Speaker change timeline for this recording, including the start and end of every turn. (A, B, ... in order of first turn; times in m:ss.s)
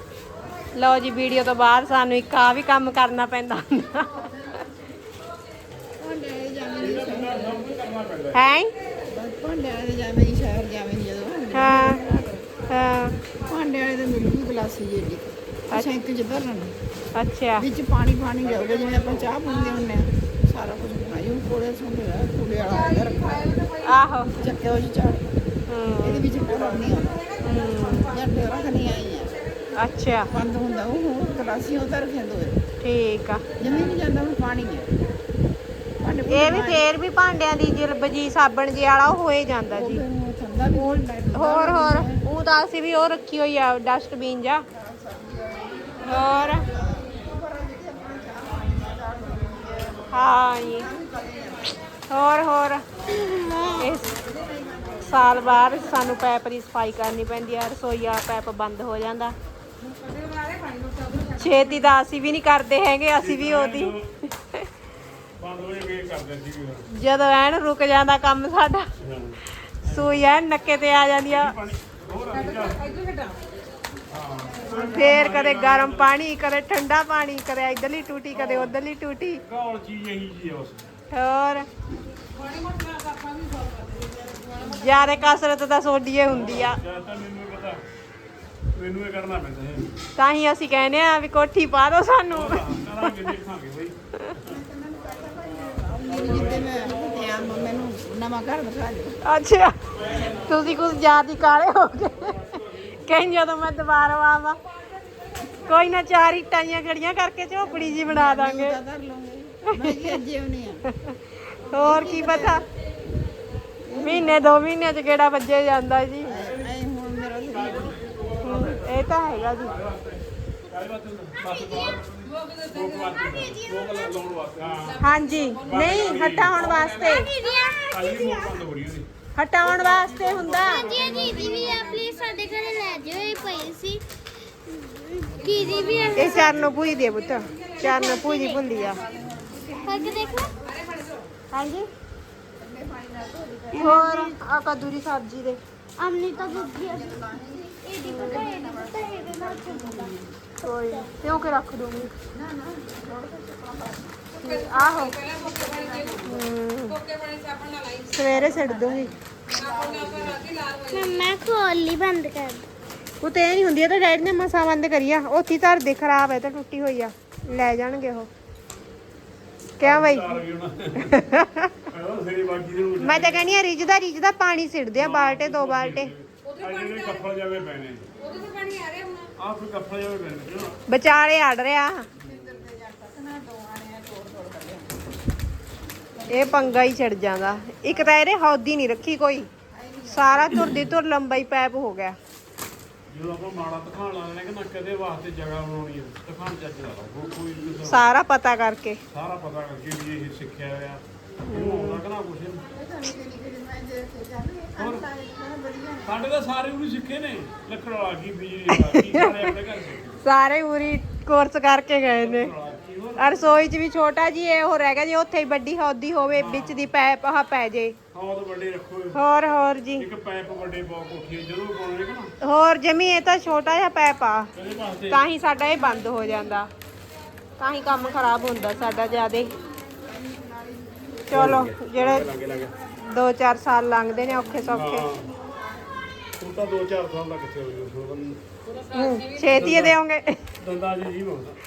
0:00.7-0:04.3 A
0:06.0-0:07.7 B
0:06.8-0:08.4 C
0:08.3-0:08.7 A
0:09.1-0:12.5 B
0:11.5-0:12.0 A
0:12.7-0:13.2 A
0:13.5-0:16.7 B
0:15.7-0:16.0 A
0:17.2-0:17.7 A
0:17.6-0:23.6 B
0:18.5-0:19.9 D
0:22.6-0:24.3 D
0:23.8-0:24.3 A
0:24.3-0:25.4 B
0:25.7-0:26.3 A
0:26.0-0:27.3 B
0:26.4-0:30.2 D
0:27.4-0:28.2 A
0:28.1-0:29.4 B
0:29.8-0:30.3 A
0:30.3-0:32.6 B
0:32.8-0:33.5 A
0:33.6-0:34.9 B
0:33.6-0:34.0 D
0:36.0-0:36.9 B
0:36.2-0:40.0 A
0:39.7-0:42.2 B
0:40.7-0:44.6 A
0:44.7-0:51.8 B
0:46.0-0:46.6 A
0:50.1-0:50.9 A
0:52.1-0:52.8 A
0:53.1-0:56.2 B
0:53.8-0:54.1 A
0:55.0-0:59.4 A
0:59.8-1:01.9 D
1:01.4-1:04.0 A
1:03.2-1:04.1 C
1:05.4-1:06.8 C
1:06.9-1:08.9 A
1:09.0-1:10.2 C
1:09.8-1:11.6 A
1:11.3-1:12.8 C
1:12.3-1:13.4 D
1:14.1-1:16.1 C
1:14.4-1:15.4 B
1:14.8-1:19.4 A
1:18.3-1:18.7 C
1:19.4-1:20.9 C
1:21.1-1:21.7 A
1:22.3-1:25.4 D
1:24.8-1:26.8 A
1:26.3-1:27.8 C
1:28.8-1:29.9 C
1:30.2-1:33.2 A
1:32.3-1:34.0 C
1:34.4-1:39.2 B
1:35.9-1:37.8 C
1:39.2-1:42.4 A
1:39.9-1:41.1 C
1:42.1-1:43.1 C
1:43.0-1:44.6 A
1:45.6-1:48.8 A
1:47.6-1:50.8 B
1:49.8-1:50.2 A
1:51.7-1:52.7 A
1:51.7-1:52.6 B
1:53.8-1:54.6 B
1:54.0-1:56.4 A
1:56.2-1:58.8 B
1:56.4-1:56.7 C
1:57.5-2:07.2 C
1:58.4-1:59.8 A
2:01.5-2:03.6 D
2:03.2-2:04.2 E
2:04.7-2:06.3 D
2:05.0-2:07.3 A
2:06.9-2:08.7 E
2:07.4-2:07.8 D
2:07.9-2:09.1 C
2:09.4-2:10.9 A
2:09.6-2:12.0 C
2:09.8-2:13.8 D
2:10.6-2:14.0 E
2:14.6-2:16.6 E
2:15.3-2:19.3 D
2:15.5-2:16.7 C
2:16.1-2:19.0 A
2:18.2-2:18.6 E
2:18.7-2:21.1 B
2:19.8-2:20.5 E
2:20.6-2:21.3 D
2:21.5-2:21.9 A
2:22.6-2:24.3 B
2:23.7-2:24.4 E
2:23.8-2:25.6 A
2:26.0-2:27.2 E
2:26.3-2:30.3 B
2:27.8-2:31.1 E
2:28.1-2:28.5 A
2:30.6-2:32.1 A
2:32.3-2:34.3 B
2:34.4-2:38.4 D
2:34.4-2:35.1 A
2:35.2-2:36.4 B
2:36.3-2:37.0 A
2:38.1-2:39.1 A
2:38.3-2:40.5 B
2:39.5-2:41.5 D
2:40.9-2:42.6 E
2:43.2-2:48.3 A
2:49.8-2:50.4 A
2:49.8-2:51.2 C
2:51.0-2:51.7 A
2:51.9-2:53.4 C
2:53.0-2:56.1 A
2:55.0-2:58.0 C
2:56.4-2:57.4 D
2:58.2-2:59.3 D
2:59.4-3:00.8 C
3:00.9-3:02.1 A
3:02.2-3:04.9 B
3:06.1-3:06.9 B
3:06.3-3:09.5 A
3:07.8-3:08.1 B
3:09.7-3:10.9 B
3:10.0-3:12.2 A
3:13.1-3:18.0 C
3:17.8-3:19.0 A
3:19.1-3:22.6 C
3:21.4-3:22.0 A
3:22.6-3:26.3 B
3:24.8-3:25.1 C
3:26.0-3:30.2 C
3:28.7-3:29.5 A
3:30.2-3:32.5 A
3:32.2-3:33.6 C
3:33.2-3:38.0 A
3:36.3-3:36.9 C
3:38.1-3:39.2 C
3:39.1-3:40.1 A
3:40.0-3:42.3 C
3:42.4-3:44.5 A
3:44.5-3:45.2 C
3:45.1-3:46.7 A
3:45.8-3:46.6 B
3:47.6-3:49.5 A
3:47.8-3:52.8 B
3:51.3-3:52.3 A
3:51.3-3:52.7 C
3:53.0-3:55.1 A
3:54.1-3:55.9 B
3:54.7-3:55.3 C
3:56.4-3:58.4 C
3:58.6-3:59.9 D
3:58.9-4:00.4 A
3:59.5-4:00.0 C
4:00.6-4:01.6 C